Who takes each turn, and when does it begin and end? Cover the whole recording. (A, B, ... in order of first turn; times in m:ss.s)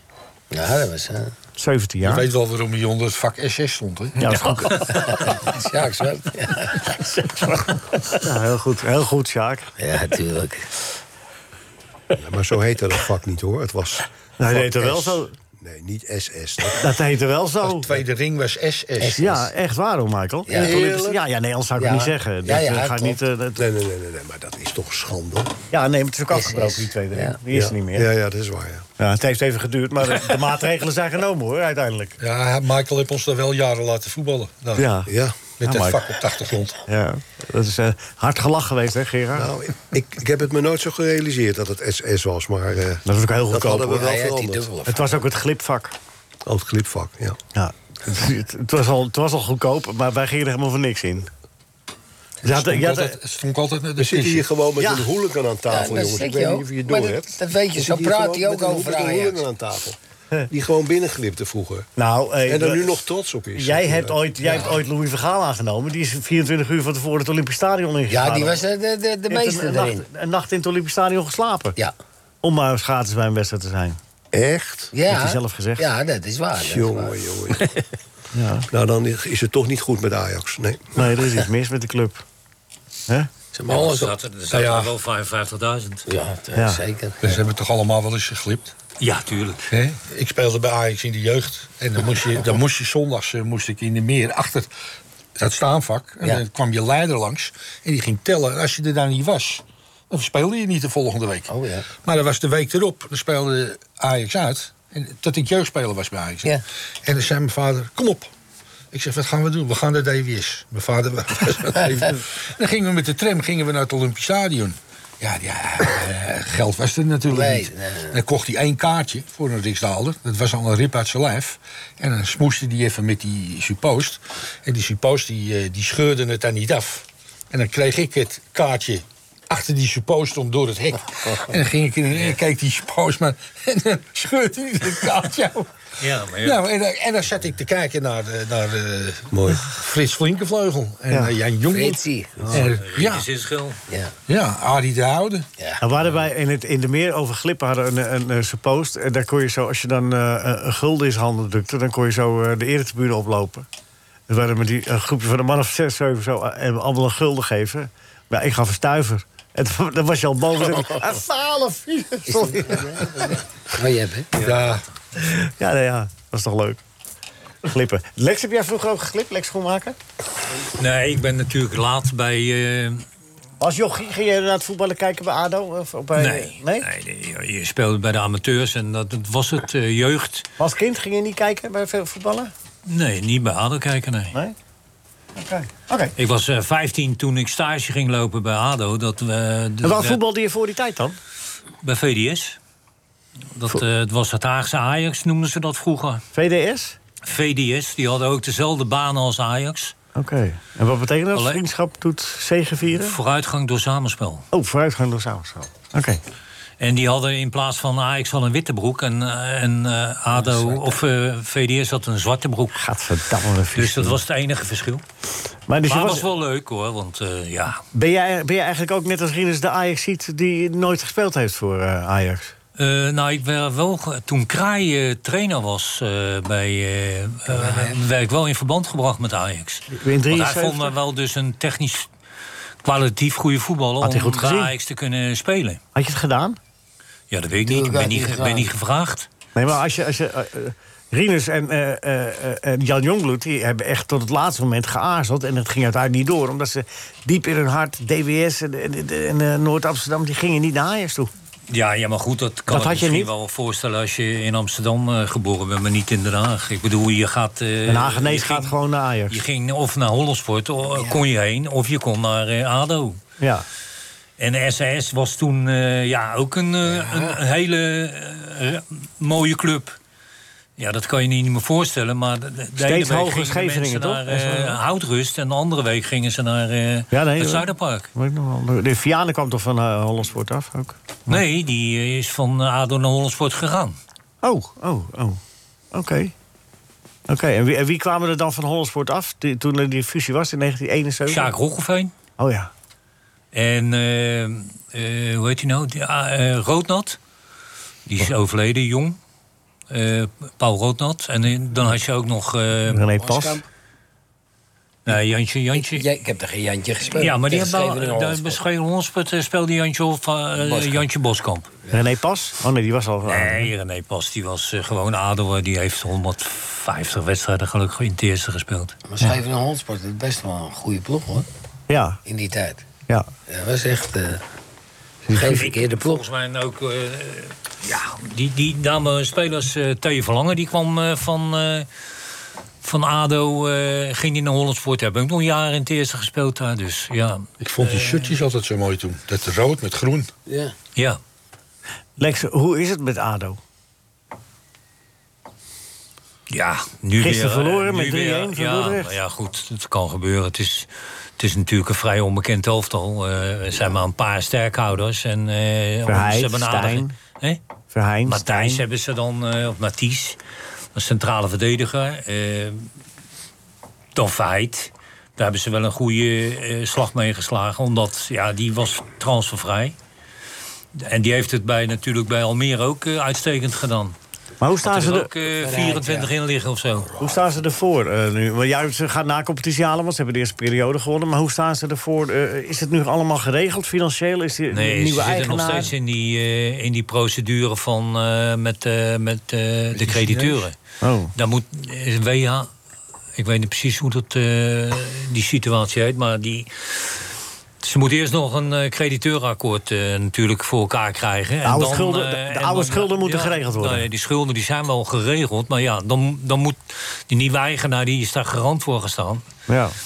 0:00.5-0:01.3 A
0:01.6-0:02.3 B
0:02.0-0:04.4 C
0:04.2-0:05.1 B
0:04.8-0:07.0 A
0:08.2-0:09.7 B
0:09.8-0:10.7 A
0:12.2-0:14.1 D
0:14.4-0:15.3 B
0:15.6-0:16.9 D
0:16.8-0:17.9 B
0:17.7-0:19.2 C
0:19.0-0:19.5 A
0:19.2-0:23.6 B
0:20.5-0:20.9 A
0:20.6-0:21.2 D
0:21.8-0:23.2 A
0:23.6-0:25.6 D
0:25.7-0:28.1 B
0:26.3-0:27.4 A
0:27.5-0:28.9 D
0:29.0-0:32.2 B
0:32.2-0:34.9 C
0:34.8-0:36.1 B
0:35.1-0:35.5 D
0:35.6-0:36.8 C
0:36.9-0:39.5 B
0:39.4-0:44.7 D
0:43.1-0:44.1 B
0:43.9-0:45.2 A
0:44.9-0:46.0 B
0:46.5-0:47.4 D
0:47.6-0:51.3 B
0:52.4-0:53.2 B
0:52.5-0:54.5 C
0:54.0-1:00.0 D
0:54.8-0:55.1 B
0:55.7-0:59.5 A
1:00.5-1:01.9 D
1:02.0-1:03.0 B
1:02.5-1:04.2 D
1:03.6-1:08.7 B
1:04.5-1:04.7 A
1:08.1-1:10.0 A
1:09.3-1:11.8 B
1:12.4-1:14.0 B
1:14.3-1:14.9 D
1:14.9-1:17.2 A
1:15.1-1:15.9 B
1:16.6-1:17.7 D
1:18.3-1:18.7 B
1:18.7-1:21.0 D
1:21.0-1:22.2 B
1:23.5-1:24.1 A
1:23.7-1:26.0 E
1:24.5-1:24.9 C
1:26.1-1:27.4 A
1:26.6-1:26.8 B
1:27.2-1:28.7 C
1:29.0-1:29.7 E
1:29.7-1:34.7 C
1:35.4-1:41.5 C
1:41.5-1:41.9 A
1:42.0-1:48.3 C
1:48.9-2:15.7 C
1:57.3-1:58.2 A
2:16.0-2:16.6 E
2:16.4-2:23.3 C
2:19.3-2:19.7 D
2:21.7-2:22.6 A
2:22.8-2:23.8 E
2:23.9-2:24.1 A
2:24.3-2:25.5 C
2:25.6-2:25.8 A
2:25.8-2:33.7 B
2:34.3-2:43.1 B
2:42.3-2:44.3 A
2:44.4-2:44.8 C
2:45.2-2:46.8 B
2:47.6-2:50.0 B
2:50.8-2:53.0 E
2:53.6-2:56.9 B
2:56.2-3:00.5 E
3:00.6-3:02.5 B
3:02.9-3:04.4 E
3:05.4-3:06.1 B
3:06.2-3:10.2 E
3:09.8-3:11.2 B
3:11.8-3:12.6 E
3:13.6-3:16.2 E
3:16.3-3:17.0 B
3:17.2-3:20.0 E
3:20.2-3:23.2 B
3:21.3-3:21.6 E
3:23.0-3:24.4 E
3:24.5-3:26.2 B
3:26.8-3:32.8 E
3:32.8-3:34.2 B
3:33.8-3:35.0 E
3:35.7-3:36.3 B
3:35.9-3:37.8 E
3:37.9-3:42.5 B
3:42.8-3:52.1 E
3:47.5-3:48.0 A
3:49.9-3:51.0 B
3:52.8-3:55.8 E
3:54.0-3:54.7 B
3:56.0-3:56.6 B
3:57.3-3:59.3 E
3:57.6-3:58.7 A
3:59.6-4:11.3 B
4:11.7-4:18.8 E
4:12.7-4:13.3 B
4:17.9-4:19.4 B
4:19.3-4:23.2 E
4:20.9-4:21.2 A
4:23.4-4:23.7 B
4:24.4-4:30.0 E
4:26.8-4:27.4 A
4:30.8-4:38.1 E
4:32.8-4:34.8 B
4:37.1-4:41.4 B
4:41.3-4:44.0 E
4:44.4-4:45.4 B
4:45.9-4:46.3 B
4:47.3-4:51.5 B
4:51.3-4:52.1 E
4:52.4-4:52.7 B
4:53.5-4:57.2 E
4:58.1-4:59.2 E
4:59.9-5:03.1 E
5:02.9-5:03.6 B
5:05.1-5:06.0 E
5:05.7-5:08.6 A
5:07.1-5:11.7 E
5:10.6-5:11.0 A
5:11.9-5:13.7 B
5:13.2-5:19.0 E
5:19.1-5:21.5 A
5:21.9-5:22.2 B
5:22.3-5:22.8 A
5:23.5-5:24.4 A
5:25.3-5:25.6 B
5:25.3-5:26.2 A
5:25.4-5:31.9 E
5:32.8-5:38.4 E
5:37.6-5:40.3 C
5:40.5-5:40.8 A
5:42.2-5:43.6 B
5:46.5-5:57.6 E
5:47.2-5:49.1 B
5:56.1-5:57.2 B
5:57.9-5:58.8 B
5:58.3-6:00.4 E
6:01.0-6:02.9 E
6:04.2-6:10.0 E
6:11.0-6:14.2 E
6:14.6-6:15.3 B
6:14.8-6:17.1 E
6:15.6-6:16.3 A
6:17.2-6:25.9 B
6:24.7-6:30.7 E
6:30.0-6:30.6 C
6:31.0-6:31.3 B
6:31.4-6:32.7 E
6:33.4-6:37.2 E
6:37.8-6:49.4 E
6:41.6-6:44.0 B
6:49.7-6:50.0 B